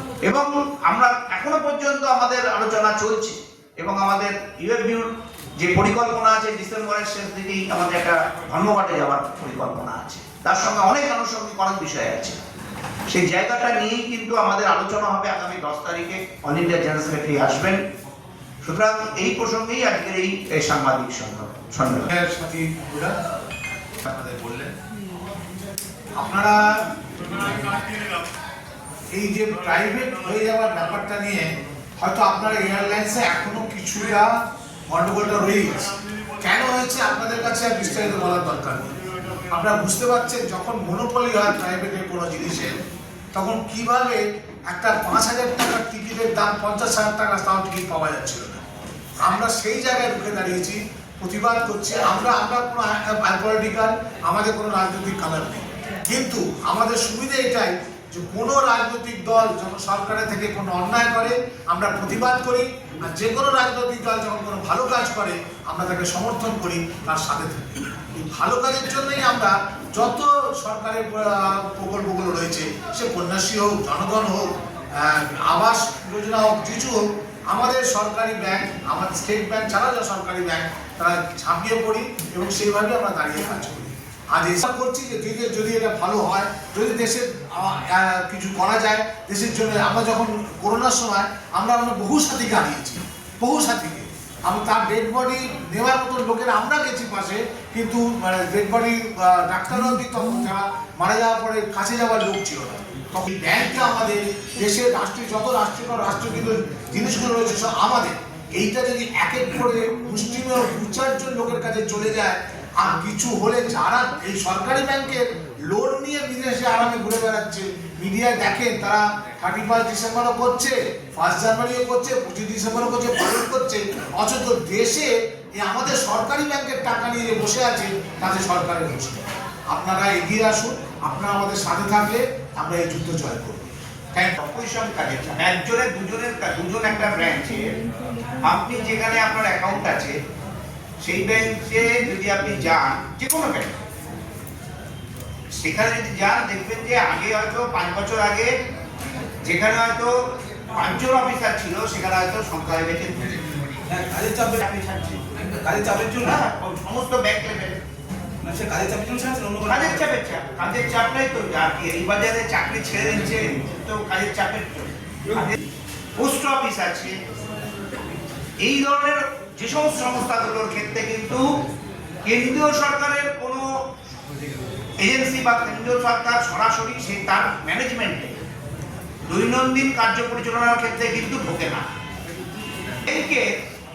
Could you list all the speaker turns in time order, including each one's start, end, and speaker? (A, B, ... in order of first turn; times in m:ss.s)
0:00.2-0:05.1 A
0:05.6-0:12.4 A
0:13.1-0:17.8 A
0:18.6-0:22.1 A
0:22.1-0:23.1 B
0:26.2-0:26.6 B
0:29.1-0:34.3 B
0:34.9-0:35.9 B
0:36.4-0:39.0 B
0:39.5-0:42.8 B
0:43.3-0:48.6 B
0:49.2-2:14.3 B
2:14.4-2:17.8 A
2:18.4-2:20.2 A
2:21.0-2:23.8 A
2:25.6-2:28.5 A
2:29.4-2:30.1 A
2:30.7-2:33.4 A
2:33.9-2:34.6 C
2:34.3-2:35.2 A
2:35.5-2:36.4 C
2:36.2-2:37.8 A
2:38.4-2:40.1 C
2:39.6-2:45.6 A
2:46.2-2:47.2 A
2:48.6-2:51.4 A
2:52.2-2:53.6 A
2:55.0-2:58.4 A
2:59.3-3:01.9 A
3:03.1-3:03.5 A